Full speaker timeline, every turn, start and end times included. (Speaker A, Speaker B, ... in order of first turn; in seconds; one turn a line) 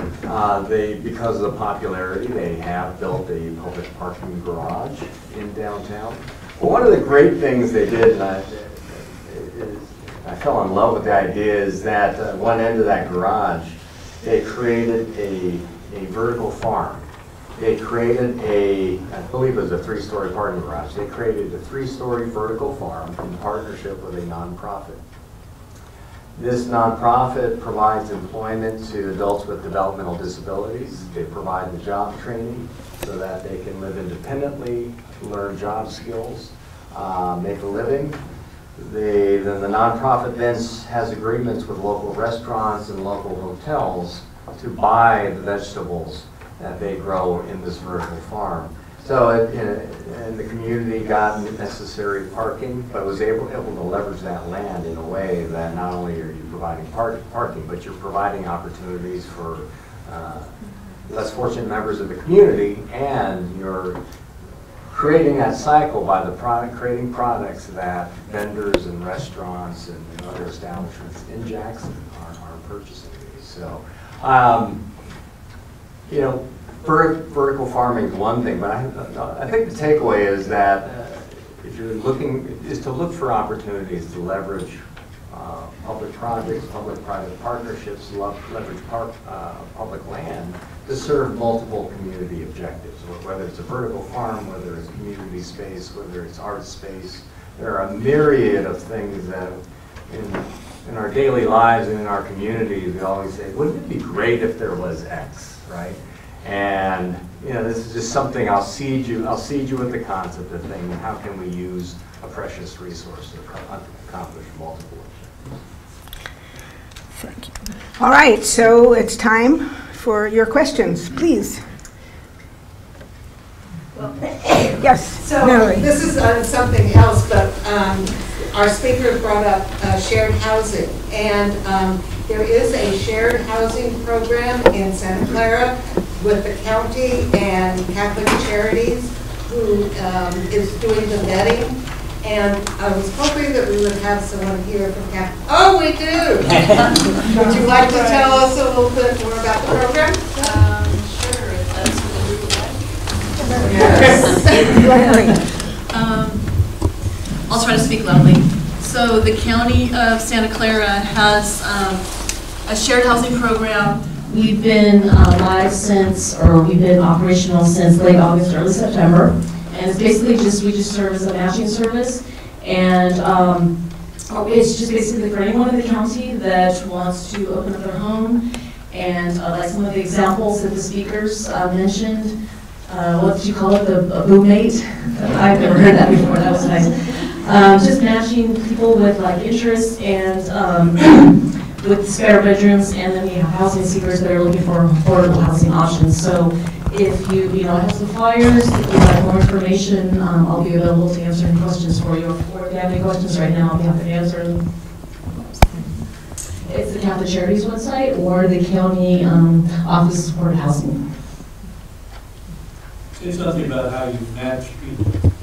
Speaker A: 0.2-25.0
Speaker A: 26.4-38.2
Speaker A: 38.8-60.5
Speaker A: 61.1-64.0
Speaker A: 64.9-74.8
Speaker A: 76.1-115.3
Speaker B: 117.1-121.6
Speaker B: 124.7-125.9
Speaker C: 125.2-150.4
Speaker D: 147.8-148.4
Speaker D: 150.3-152.8
Speaker B: 153.5-155.3
Speaker D: 153.6-154.8
Speaker C: 153.6-154.2
Speaker E: 164.2-173.8
Speaker E: 174.3-204.6
Speaker E: 206.6-211.1
Speaker F: 213.1-215.3